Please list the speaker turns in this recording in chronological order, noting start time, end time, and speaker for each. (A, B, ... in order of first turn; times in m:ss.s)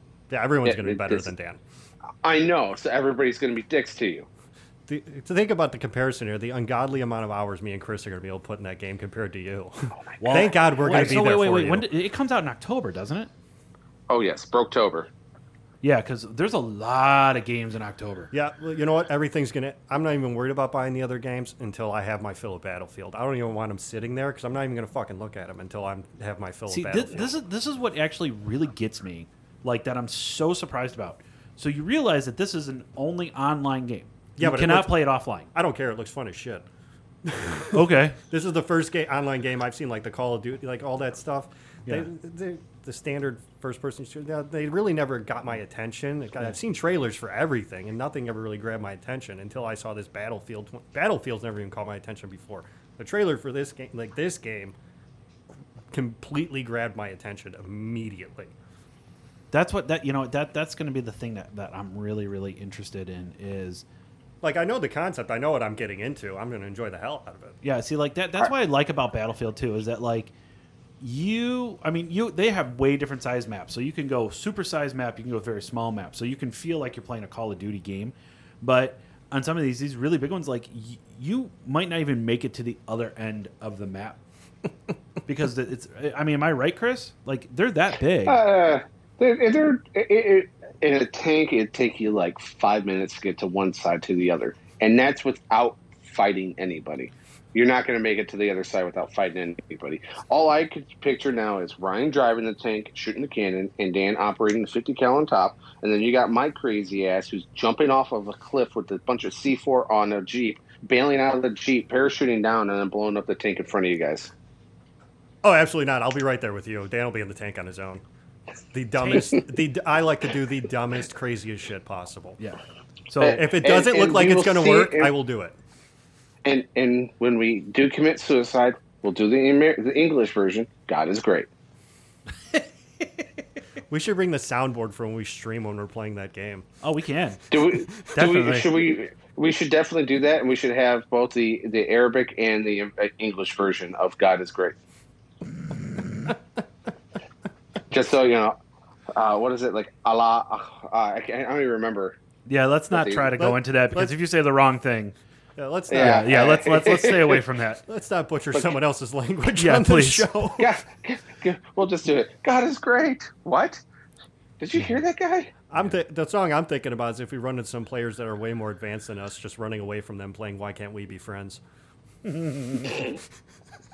0:00.3-0:01.6 A
0:00.6-0:01.3 B
0:02.2-0:04.3 B
0:04.9-0:11.9 A
0:10.2-0:13.3 C
0:14.1-0:15.1 B
0:15.8-0:18.3 C
0:18.3-0:27.3 A
0:26.7-0:35.5 C
0:34.4-0:36.7 A
0:37.2-0:54.8 A
0:37.6-0:38.2 C
0:55.9-0:58.5 A
0:59.5-1:03.8 C
1:04.4-1:07.6 A
1:07.6-1:10.3 C
1:11.0-1:24.2 C
1:25.2-1:28.4 C
1:28.3-1:54.3 B
1:55.4-1:58.0 A
1:58.7-2:02.4 A
2:02.4-2:03.4 C
2:03.2-2:05.1 B
2:03.2-2:05.6 A
2:06.4-2:11.5 B
2:13.9-2:16.6 A
2:16.8-2:17.4 C
2:17.5-2:24.8 B
2:18.1-2:18.7 C
2:27.9-2:28.6 B
2:29.1-2:32.2 B
2:32.5-2:35.2 C
2:32.9-2:33.3 B
2:33.4-2:34.2 A
2:35.6-2:36.3 A
2:35.9-2:37.4 B
2:35.9-2:37.8 C
2:37.9-2:40.8 A
2:39.6-2:40.3 C
2:40.6-2:43.8 B
2:44.6-2:45.6 B
2:45.7-2:51.6 A
2:52.2-2:53.0 C